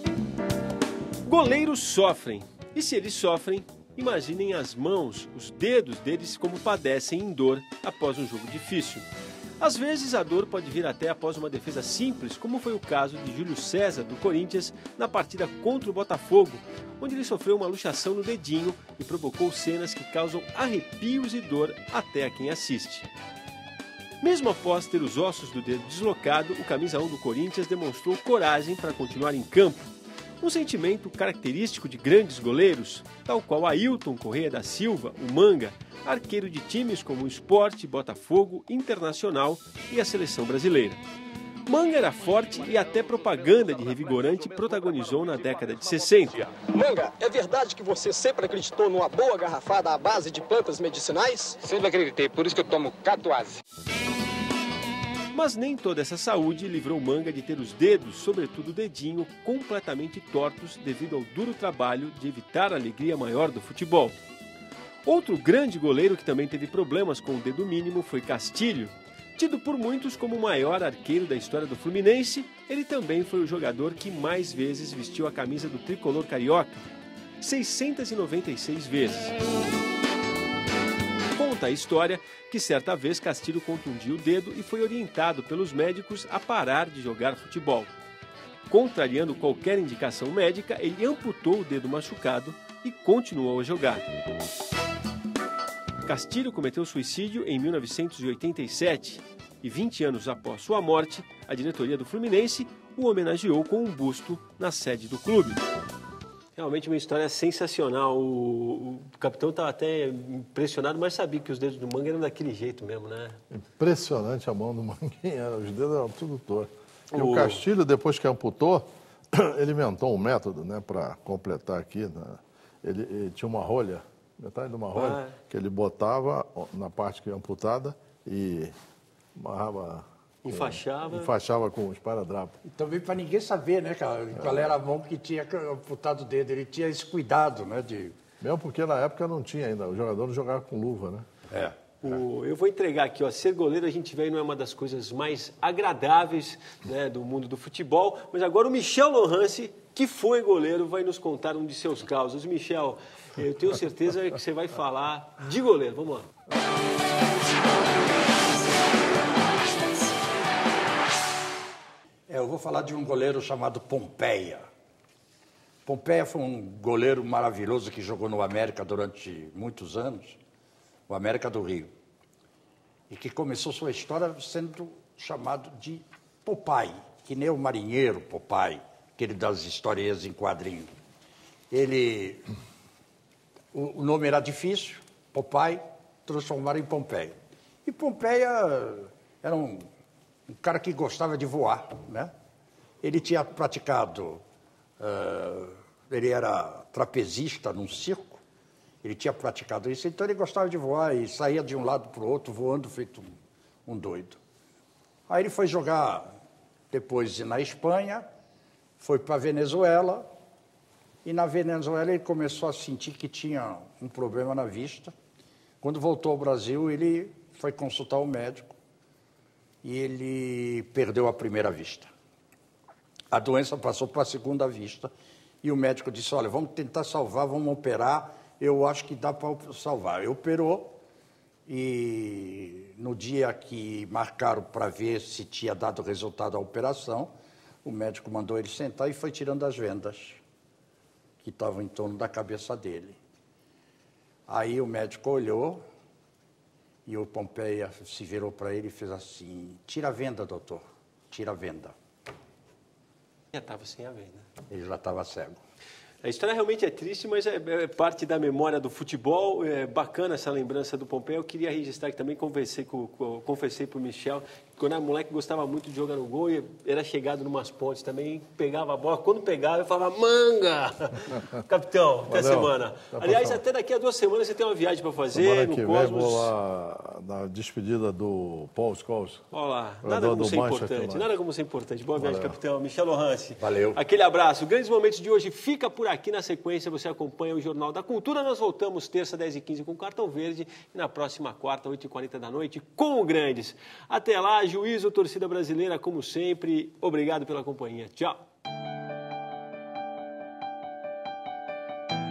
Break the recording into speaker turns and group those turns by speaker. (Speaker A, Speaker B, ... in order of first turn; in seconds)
Speaker A: 1.2-9.1, 9.6-23.1, 24.2-41.0, 41.7-46.5, 55.3-64.2, 65.0-76.9, 77.4-79.3, 81.3-87.9, 88.7-94.1, 96.0-105.6, 106.6-113.4, 117.1-117.7, 124.9-125.3, 130.4-131.3, 142.0-156.3, 253.5-254.5, 256.2-276.5, 279.5-298.4
Speaker B: 46.5-51.7
Speaker C: 51.6-53.6
Speaker D: 113.5-128.8, 129.4-132.6, 134.4-134.7, 138.4-141.3, 272.3-273.6, 275.3-279.5, 280.0-281.3, 282.2-282.6
Speaker E: 132.7-138.2, 162.3-164.6, 165.9-170.4, 171.1-171.9, 173.1-180.9, 181.7-182.4, 183.7-187.3, 187.9-189.8, 190.5-192.3, 193.0-194.4, 195.0-198.4, 199.0-203.3, 203.9-204.4, 205.3-206.3, 206.9-208.2, 209.0-210.2, 211.2-215.1, 215.8-218.7, 219.8-222.1, 223.3-225.1, 225.6-230.9, 231.7-237.3, 237.8-240.4, 241.4-243.2, 244.5-245.8, 247.1-251.9, 254.7-255.6, 283.6-284.0